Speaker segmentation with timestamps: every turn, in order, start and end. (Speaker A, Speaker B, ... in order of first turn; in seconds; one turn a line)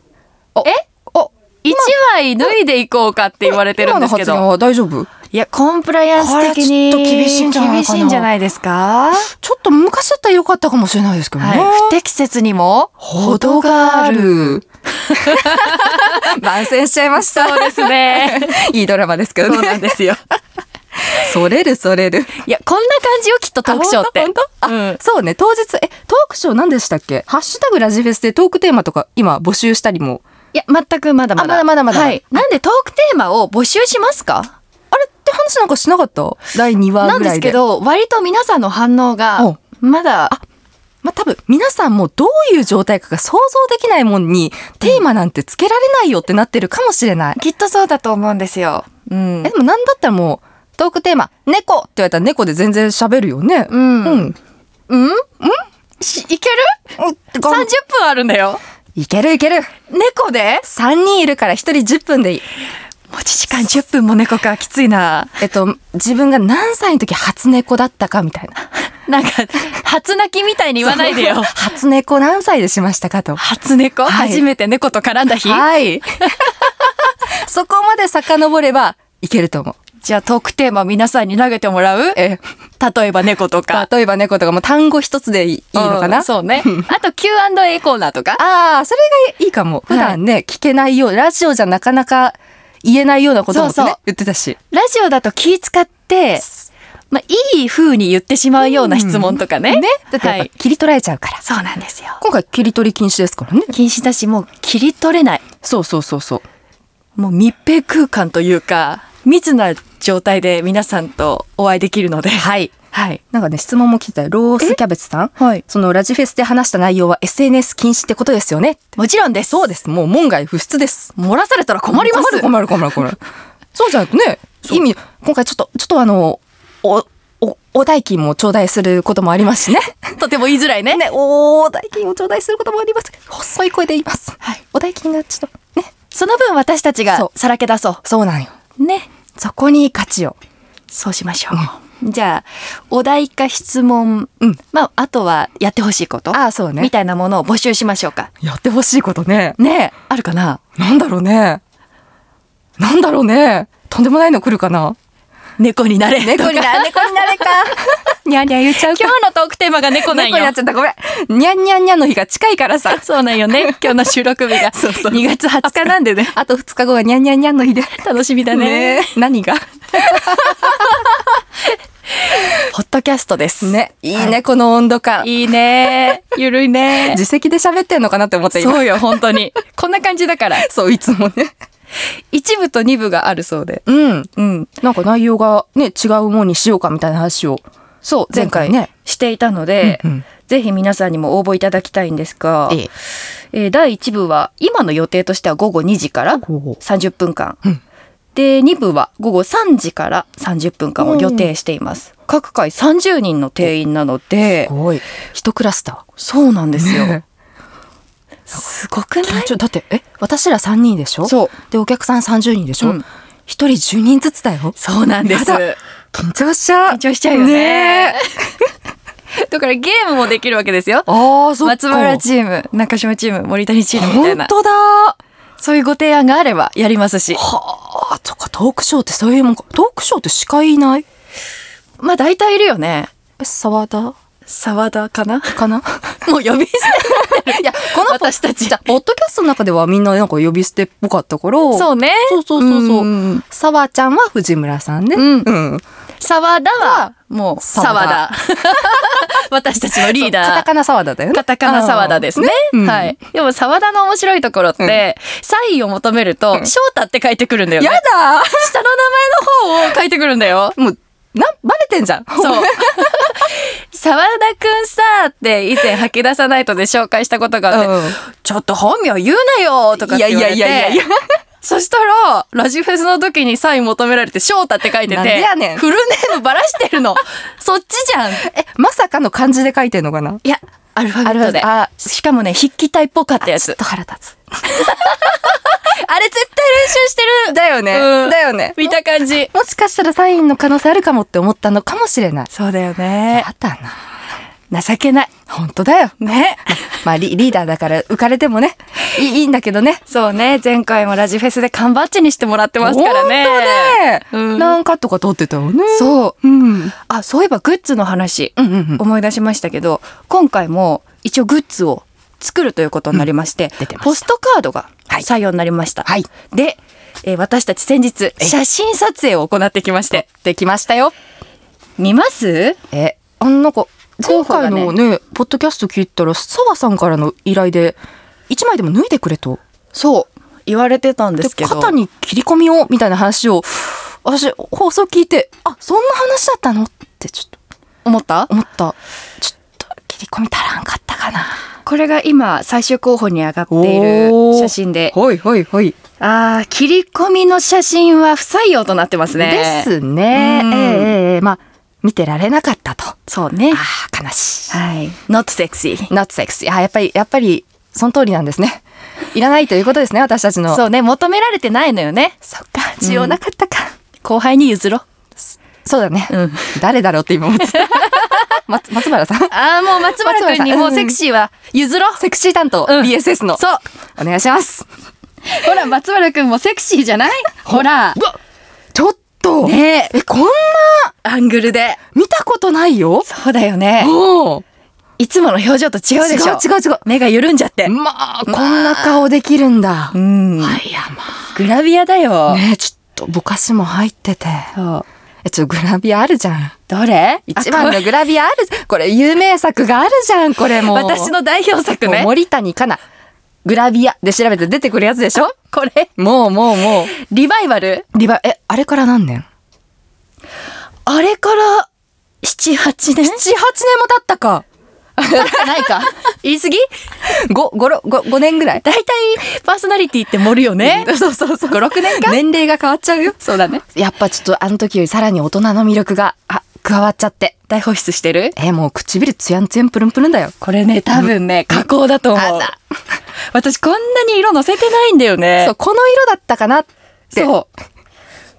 Speaker A: 0.5-1.9
Speaker B: 1.6-4.4
Speaker A: 3.5-5.1
Speaker B: 5.3-9.3
Speaker A: 6.2-8.3
Speaker A: 9.3-12.0
Speaker B: 11.4-16.4
Speaker A: 13.0-14.6
Speaker A: 15.1-19.9
Speaker B: 17.1-18.6
Speaker B: 19.4-20.2
Speaker A: 21.1-22.4
Speaker B: 22.4-25.0
Speaker A: 23.6-30.2
Speaker B: 30.5-34.5
Speaker A: 31.4-32.2
Speaker A: 34.9-37.6
Speaker B: 37.0-40.4
Speaker A: 41.0-47.4
Speaker B: 47.4-49.5
Speaker A: 49.4-54.3
Speaker B: 53.7-54.3
Speaker B: 54.9-55.3
Speaker B: 56.0-56.7
Speaker A: 57.0-57.7
Speaker B: 57.4-58.6
Speaker A: 59.0-59.7
Speaker B: 59.9-60.6
Speaker A: 60.6-62.4
Speaker B: 63.1-65.4
Speaker A: 65.4-68.5
Speaker B: 69.0-71.5
Speaker A: 70.8-73.4
Speaker B: 73.4-75.7
Speaker A: 74.0-74.4
Speaker A: 75.4-76.7
Speaker B: 76.2-76.5
Speaker A: 77.3-79.8
Speaker B: 80.0-82.2
Speaker A: 82.2-82.4
Speaker B: 82.8-83.9
Speaker A: 83.7-86.7
Speaker B: 85.7-88.4
Speaker A: 88.4-94.6
Speaker B: 89.9-90.2
Speaker B: 93.5-94.0
Speaker B: 94.7-96.5
Speaker B: 97.1-100.5
Speaker A: 98.6-101.4
Speaker B: 101.4-102.2
Speaker A: 102.2-103.7
Speaker B: 103.7-105.4
Speaker A: 105.6-106.4
Speaker B: 107.2-113.2
Speaker A: 112.3-112.7
Speaker A: 113.3-118.8
Speaker B: 115.4-115.6
Speaker B: 119.0-119.7
Speaker A: 119.5-121.1
Speaker B: 121.2-122.5
Speaker A: 121.9-123.2
Speaker A: 123.7-130.0
Speaker B: 130.1-131.0
Speaker A: 130.9-135.9
Speaker B: 136.1-138.0
Speaker A: 138.0-138.5
Speaker B: 138.8-139.1
Speaker A: 139.3-140.4
Speaker B: 140.9-148.3
Speaker A: 146.3-146.9
Speaker A: 148.4-149.6
Speaker B: 149.6-150.6
Speaker A: 150.8-151.6
Speaker A: 152.8-155.0
Speaker B: 155.6-157.8
Speaker A: 156.2-159.1
Speaker B: 158.5-160.5
Speaker A: 160.1-164.0
Speaker B: 162.9-166.3
Speaker A: 164.7-171.0
Speaker B: 168.0-169.2
Speaker B: 170.0-171.1
Speaker B: 172.2-174.3
Speaker A: 173.6-176.2
Speaker B: 175.2-177.2
Speaker A: 176.9-179.0
Speaker B: 178.5-180.7
Speaker A: 180.6-181.5
Speaker B: 182.3-183.8
Speaker A: 183.8-184.3
Speaker B: 184.3-184.7
Speaker A: 184.8-187.6
Speaker B: 188.0-192.9
Speaker A: 188.3-188.9
Speaker A: 189.8-190.2
Speaker B: 193.5-197.6
Speaker A: 196.4-196.8
Speaker B: 198.3-204.7
Speaker A: 201.0-201.5
Speaker A: 204.7-206.0
Speaker B: 206.2-207.2
Speaker A: 206.8-207.2
Speaker B: 208.5-209.5
Speaker A: 209.2-218.2
Speaker B: 211.2-211.5
Speaker B: 214.8-215.8
Speaker B: 216.9-218.4
Speaker B: 219.3-224.5
Speaker A: 221.1-222.2
Speaker A: 223.9-225.2
Speaker B: 225.6-227.4
Speaker A: 227.3-231.0
Speaker B: 232.0-233.1
Speaker A: 233.4-234.2
Speaker B: 234.5-238.9
Speaker A: 235.5-236.0
Speaker A: 237.0-245.8
Speaker B: 241.7-243.4
Speaker B: 245.1-245.5
Speaker B: 246.2-250.7
Speaker A: 246.8-247.1
Speaker A: 247.6-248.2
Speaker A: 250.1-253.2
Speaker B: 251.3-260.8
Speaker A: 257.8-258.7
Speaker A: 260.8-263.3
Speaker B: 262.4-271.0
Speaker A: 267.7-268.2
Speaker A: 270.0-271.2
Speaker B: 271.6-278.5
Speaker A: 275.1-275.8
Speaker A: 278.4-280.4
Speaker B: 280.4-283.8
Speaker A: 281.2-282.0
Speaker A: 283.5-284.4
Speaker B: 284.6-289.5
Speaker A: 287.5-288.9
Speaker A: 289.5-292.5
Speaker B: 292.5-293.5
Speaker A: 293.3-294.0
Speaker B: 294.7-295.3
Speaker A: 295.5-300.0
Speaker B: 296.2-297.0
Speaker B: 300.1-304.8
Speaker A: 302.8-306.9
Speaker B: 305.9-306.4
Speaker B: 307.1-320.2
Speaker A: 308.6-309.0
Speaker A: 313.8-314.2
Speaker A: 320.1-321.1
Speaker B: 322.0-322.8
Speaker A: 322.9-329.6
Speaker B: 324.2-324.9
Speaker B: 329.9-331.9
Speaker A: 331.4-337.6
Speaker B: 338.0-338.5
Speaker A: 338.5-341.6
Speaker B: 341.8-345.1
Speaker A: 343.7-345.9
Speaker B: 346.2-351.1
Speaker A: 349.4-353.2
Speaker B: 353.3-353.8
Speaker A: 353.7-354.8
Speaker B: 354.7-356.1
Speaker A: 356.1-358.8
Speaker A: 359.3-360.8
Speaker B: 360.7-362.4
Speaker A: 362.4-363.9
Speaker B: 363.0-363.4
Speaker B: 364.2-365.0
Speaker A: 365.5-369.5
Speaker B: 366.3-366.8
Speaker B: 367.7-368.5
Speaker B: 369.5-372.2
Speaker A: 370.1-371.2
Speaker A: 372.2-373.6
Speaker B: 372.9-373.8
Speaker A: 374.2-374.9
Speaker B: 375.4-378.2
Speaker A: 377.7-378.4
Speaker A: 378.9-381.1
Speaker B: 379.6-380.1
Speaker B: 381.2-382.0
Speaker A: 382.1-383.3
Speaker B: 383.2-384.1
Speaker A: 384.0-384.6
Speaker B: 385.2-387.9
Speaker A: 386.2-387.0
Speaker A: 387.8-391.5
Speaker B: 388.5-389.2
Speaker B: 390.1-390.8
Speaker B: 391.5-392.6
Speaker A: 392.5-394.8
Speaker B: 394.8-395.0
Speaker A: 395.4-396.7
Speaker B: 396.9-398.1
Speaker A: 397.5-401.3
Speaker B: 400.7-402.3
Speaker A: 402.0-403.0
Speaker A: 403.6-405.5
Speaker B: 405.4-406.1
Speaker A: 406.2-407.1
Speaker B: 407.0-408.1
Speaker A: 408.1-409.4
Speaker B: 411.1-411.9
Speaker B: 412.4-413.4
Speaker A: 413.2-414.6
Speaker A: 415.2-416.1
Speaker B: 415.3-416.9
Speaker A: 417.3-418.8
Speaker B: 418.8-421.1
Speaker A: 420.8-427.6
Speaker B: 421.7-422.4
Speaker B: 423.4-423.8
Speaker B: 427.7-428.5
Speaker A: 428.6-430.5
Speaker B: 430.6-432.7
Speaker A: 431.3-431.8
Speaker A: 432.3-432.7
Speaker B: 433.5-435.7
Speaker A: 435.6-437.5
Speaker B: 437.3-437.7